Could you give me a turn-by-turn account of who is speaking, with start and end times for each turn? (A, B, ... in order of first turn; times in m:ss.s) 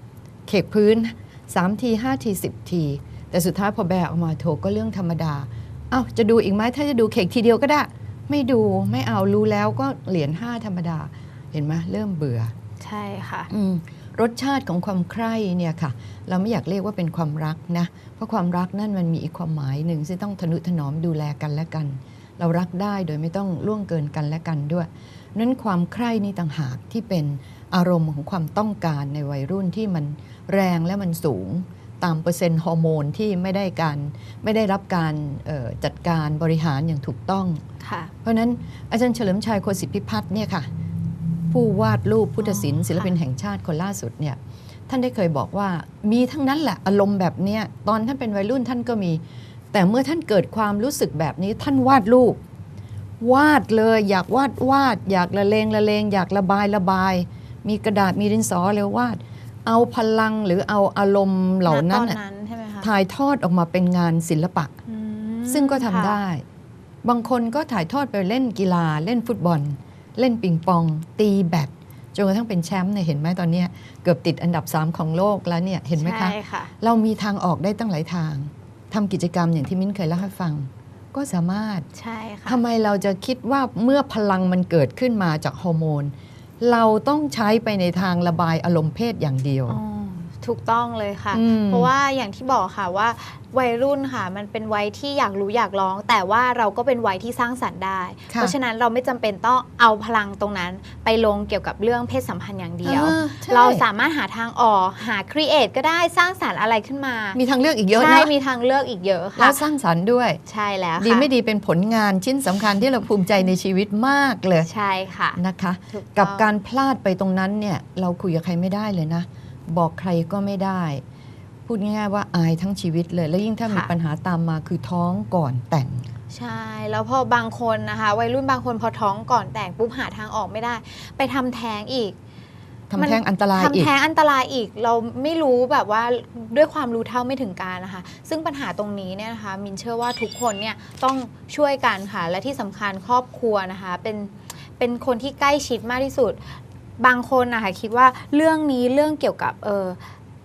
0:00.5-0:12.5 A
0:12.8-0:13.5 B
0:13.5-0:37.6 A
0:37.8-0:38.1 B
0:38.2-0:40.7 A
0:41.5-0:52.4 A
0:42.4-0:43.2 B
0:53.2-1:02.2 A
1:01.7-1:02.9 B
1:02.8-1:04.7 A
1:04.9-1:06.2 B
1:05.5-1:06.4 A
1:07.0-1:21.9 A
1:16.0-1:16.7 B
1:21.9-1:22.6 B
1:22.5-1:29.8 A
1:29.7-1:47.4 B
1:31.3-1:31.9 A
1:38.3-1:38.6 A
1:42.8-1:43.8 A
1:47.3-1:48.3 A
1:47.9-1:49.6 B
1:49.4-1:50.4 A
1:50.5-1:51.3 B
1:51.0-1:54.7 A
1:54.6-1:55.4 B
1:55.4-2:01.0 A
1:55.9-1:56.5 B
2:01.7-2:06.1 A
2:06.3-2:12.2 B
2:12.9-2:13.9 A
2:13.0-2:30.1 B